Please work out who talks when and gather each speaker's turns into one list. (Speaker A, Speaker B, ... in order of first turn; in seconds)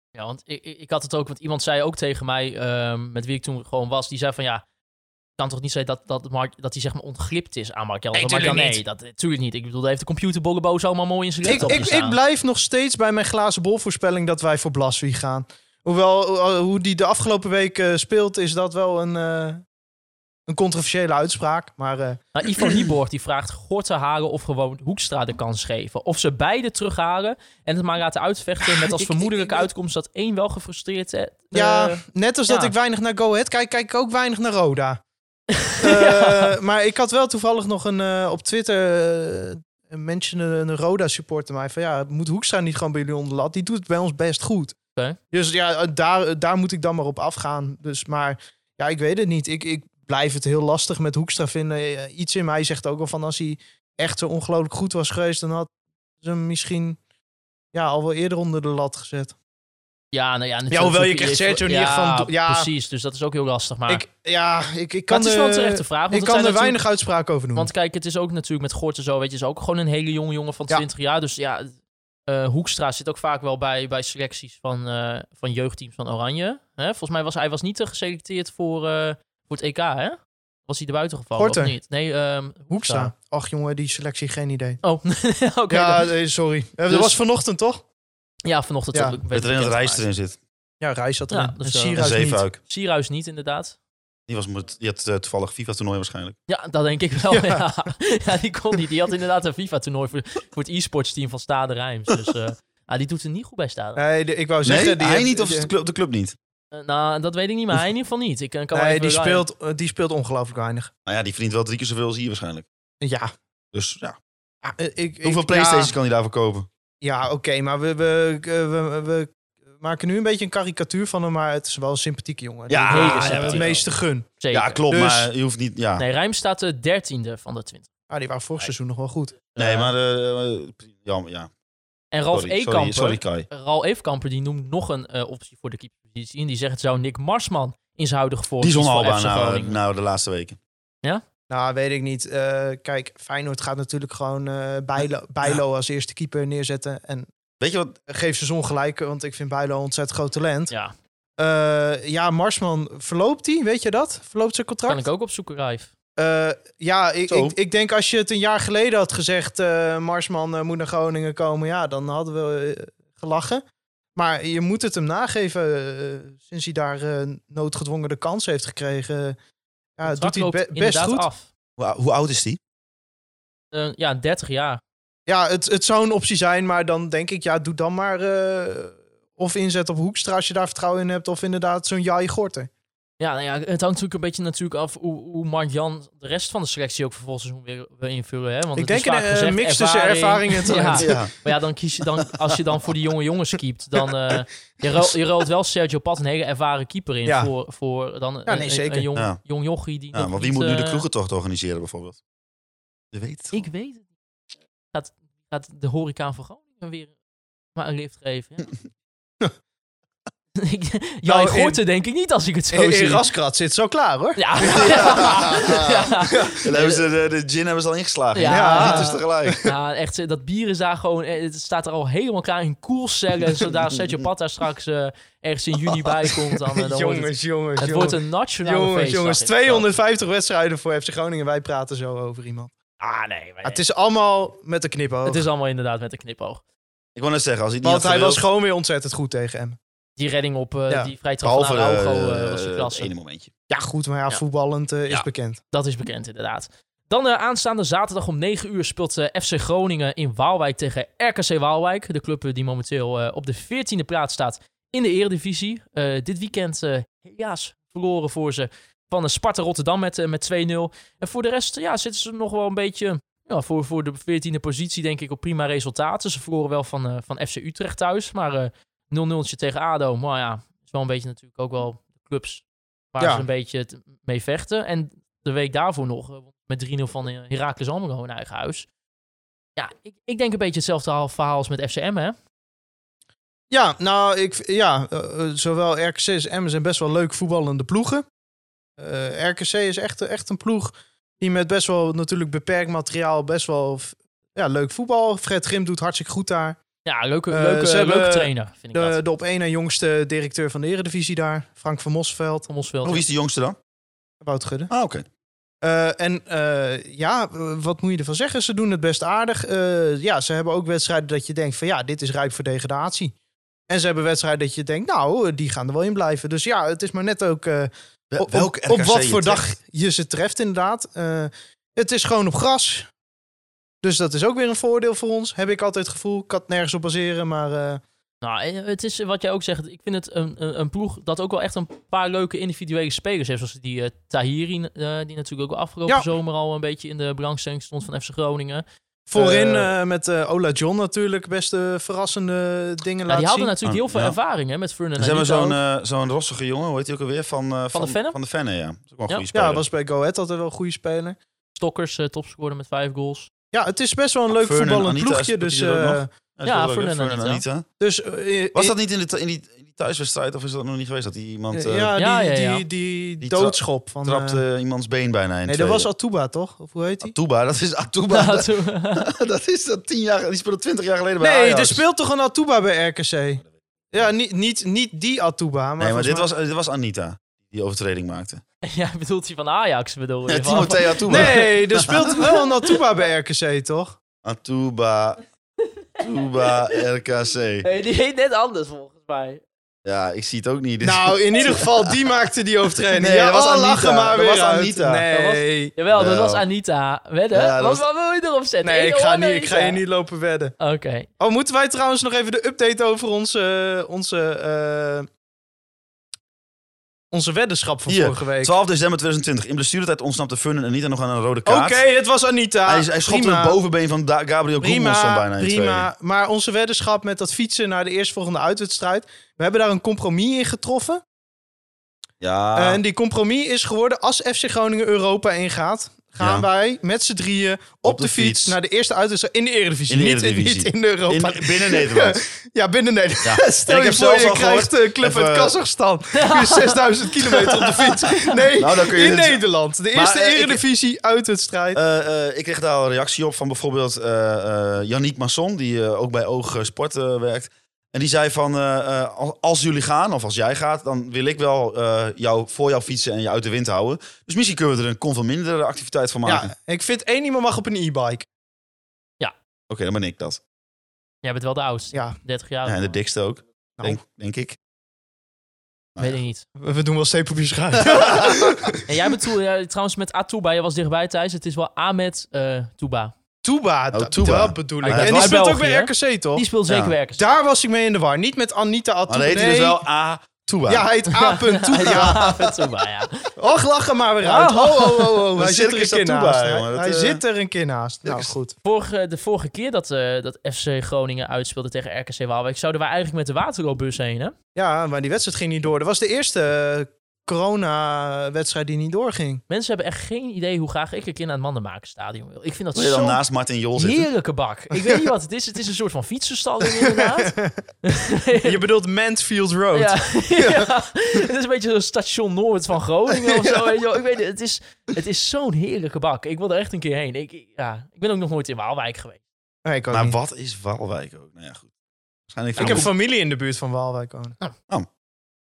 Speaker A: 0.1-4.6, 5.4-12.2, 22.3-32.7, 35.6-36.5, 60.1-64.0, 65.1-66.8, 67.5-71.7, 72.3-83.1, 84.8-86.1, 86.9-87.2, 88.4-90.0, 91.3-93.8, 96.5-104.0, 106.7-109.5, 122.9-123.8, 124.4-124.8, 126.0-127.8, 129.6-129.9, 132.1-139.8, 154.8-155.9, 170.0-171.5, 173.7-174.8, 183.2-201.0, 203.5-204.1, 204.9-207.1, 207.7-208.7, 210.6-213.2, 214.3-217.0, 218.3-229.9, 233.0-233.8, 235.2-236.6, 240.2-243.1, 245.7-278.9, 279.8-282.4, 297.0-299.2, 302.7-303.2, 328.4-338.8, 339.4-339.9, 343.3-345.8, 347.9-348.4, 351.8-353.5, 356.6-357.6, 362.2-362.8, 368.3-369.3, 378.8-383.0, 387.8-389.6, 395.3-400.0, 400.8-401.3, 436.3-437.0, 461.4-463.1, 466.2-466.6, 469.1-473.3, 475.0-477.4, 481.3-483.5, 484.4-485.4, 488.8-494.5, 499.7-503.4, 503.9-508.8, 509.9-519.4, 522.8-523.0
Speaker B: 8.1-8.8, 11.4-19.6, 20.5-22.8, 28.6-29.7, 31.5-35.0, 35.8-44.8, 45.3-55.7, 56.2-57.0, 57.7-59.3, 60.7-62.7, 63.9-67.7, 81.4-81.8, 82.7-84.8, 85.7-87.8, 90.8-92.4, 97.3-97.6, 104.0-105.7, 108.7-110.9, 113.0-113.3, 114.6-115.9, 117.0-124.3, 124.9-125.3, 128.1-129.4, 141.5-147.3, 148.1-150.7, 151.4-155.1, 156.2-163.6, 164.1-169.4, 170.0-171.3, 175.3-182.7, 188.8-191.2, 197.2-197.5, 198.5-199.1, 211.2-211.8, 212.7-215.7, 216.3-216.6, 218.5-219.7, 226.0-232.7, 233.6-235.4, 237.8-239.8, 243.7-245.6, 273.2-273.4, 283.7-288.2, 289.0-296.8, 297.5-302.7, 304.4-304.9, 305.8-313.3, 313.9-323.1, 324.0-328.0, 339.3-343.7, 349.5-351.4, 353.7-356.3, 358.0-358.9, 361.7-364.6, 365.6-367.3, 371.4-376.5, 381.3-384.2, 391.0-395.9, 398.8-400.7, 401.4-405.3, 407.3-408.8, 411.6-413.8, 414.8-421.2, 422.7-442.0, 456.4-458.4, 466.8-469.0, 473.6-476.6, 477.4-480.0, 480.9-482.8, 483.6-488.7, 494.7-499.6, 504.9-505.2, 506.8-507.8, 508.6-510.9, 513.3-513.9, 519.8-520.4, 522.8-524.5
Speaker C: 89.3-90.4, 92.0-92.6, 94.3-96.3, 104.6-106.3, 111.0-112.7, 113.7-114.2, 115.2-116.7, 122.7-123.8, 124.5-126.0, 129.6-131.5, 132.3-133.5, 138.6-140.6, 147.6-147.9, 157.3-157.6, 171.8-172.6, 191.0-191.3, 200.1-202.2, 203.1-203.6, 214.6-216.1, 216.6-219.6, 237.1-238.4, 241.4-243.5, 303.0-303.8, 304.9-305.2, 318.3-319.6, 339.4-339.8, 343.8-344.3, 345.2-349.8, 354.5-357.9, 358.7-362.1, 363.4-366.1, 367.2-372.0, 376.0-378.6, 380.5-382.2, 384.4-385.4, 386.2-387.9, 390.0-392.1, 393.1-395.2, 396.1-396.6, 397.5-398.0, 408.1-412.0, 412.9-416.1, 422.4-423.0, 426.4-426.7, 428.0-428.8, 430.1-432.4, 433.4-435.8, 438.7-439.6, 440.1-440.8, 441.9-456.7, 459.9-460.6, 462.8-464.8, 474.1-475.5, 476.9-477.1, 479.3-481.1, 482.1-482.3, 485.6-487.4, 502.9-504.3, 520.1-521.9, 522.5-523.1